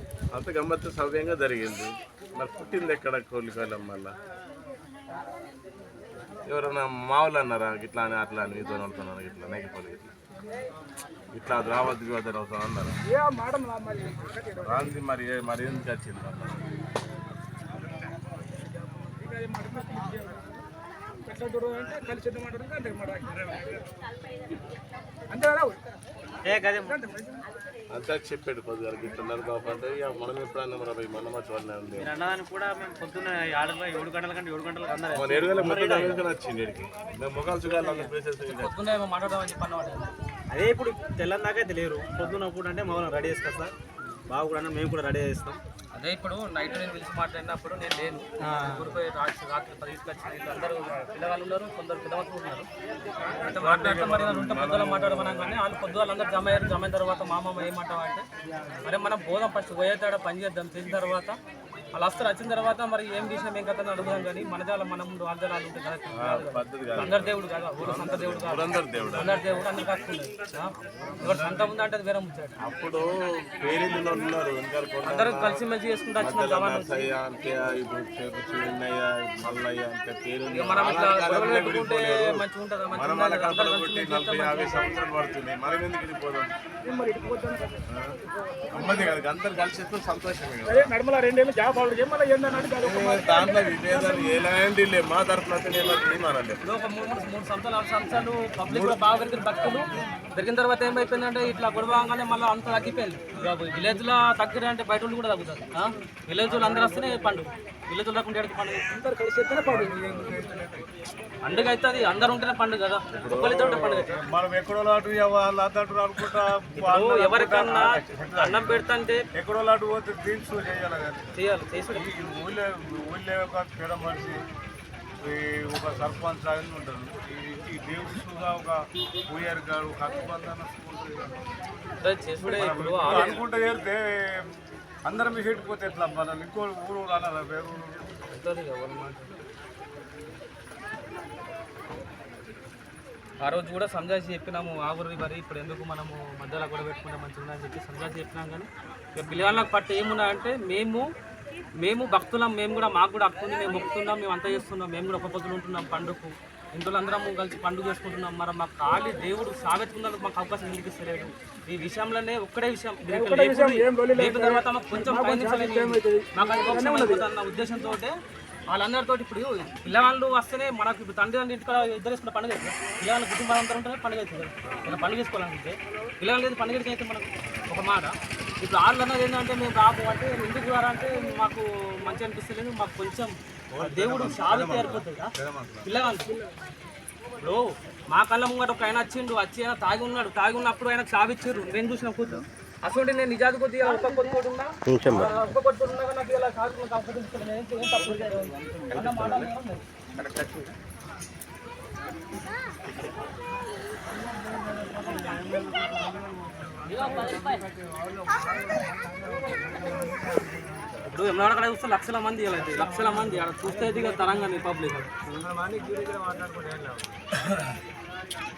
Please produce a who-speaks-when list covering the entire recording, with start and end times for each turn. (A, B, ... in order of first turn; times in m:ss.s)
0:00.3-0:04.1 A
0:06.5-0:10.1 A
0:11.3-0:13.0 A
0:13.1-0:15.0 B
0:14.6-0:16.6 A
0:18.6-0:20.6 B
0:21.2-0:23.8 B
0:25.3-0:25.9 B
0:26.5-0:27.0 C
0:26.9-0:27.4 B
0:27.9-0:32.1 A
0:32.0-0:36.2 C
0:35.1-0:38.7 A
0:37.7-0:38.1 C
0:38.4-0:40.1 D
0:40.5-0:43.8 C
0:44.3-0:45.6 C
0:45.9-0:52.7 D
0:48.4-0:49.0 C
0:53.4-0:58.2 D
0:53.6-0:55.6 A
0:58.8-1:01.4 D
1:01.9-1:12.6 D
1:06.2-1:09.6 A
1:11.1-1:11.7 A
1:12.6-1:15.6 A
1:15.0-1:17.1 D
1:16.2-1:26.5 A
1:20.5-1:24.9 D
1:26.8-1:29.1 B
1:27.9-1:28.2 A
1:28.7-1:30.9 A
1:30.7-1:34.4 B
1:32.5-1:36.6 A
1:36.6-1:48.8 D
1:38.7-1:39.1 A
1:48.9-1:49.9 B
1:49.7-1:50.6 A
1:49.7-1:50.8 E
1:51.4-1:54.1 D
1:53.1-1:54.1 A
1:54.1-1:58.6 E
1:56.8-1:59.2 D
1:59.4-2:01.2 E
2:01.4-2:02.1 D
2:02.0-2:04.3 E
2:05.2-2:08.8 E
2:09.3-2:11.4 E
2:12.0-2:13.4 D
2:12.4-2:14.0 E
2:15.0-2:18.0 E
2:18.3-2:19.3 D
2:23.4-2:31.0 D
2:31.8-2:48.2 D
2:43.1-2:47.2 B
2:48.7-3:05.3 D
3:03.8-3:04.9 A
3:04.2-3:05.0 E
3:05.4-3:05.9 A
3:05.8-3:06.3 D
3:07.4-3:19.8 D
3:14.9-3:15.3 A
3:18.7-3:19.5 E
3:20.2-3:20.7 E
3:25.2-3:26.0 E
3:26.9-3:27.6 D
3:28.7-3:29.2 B
3:30.0-3:30.4 B
3:31.0-3:35.1 D
3:33.0-3:33.4 B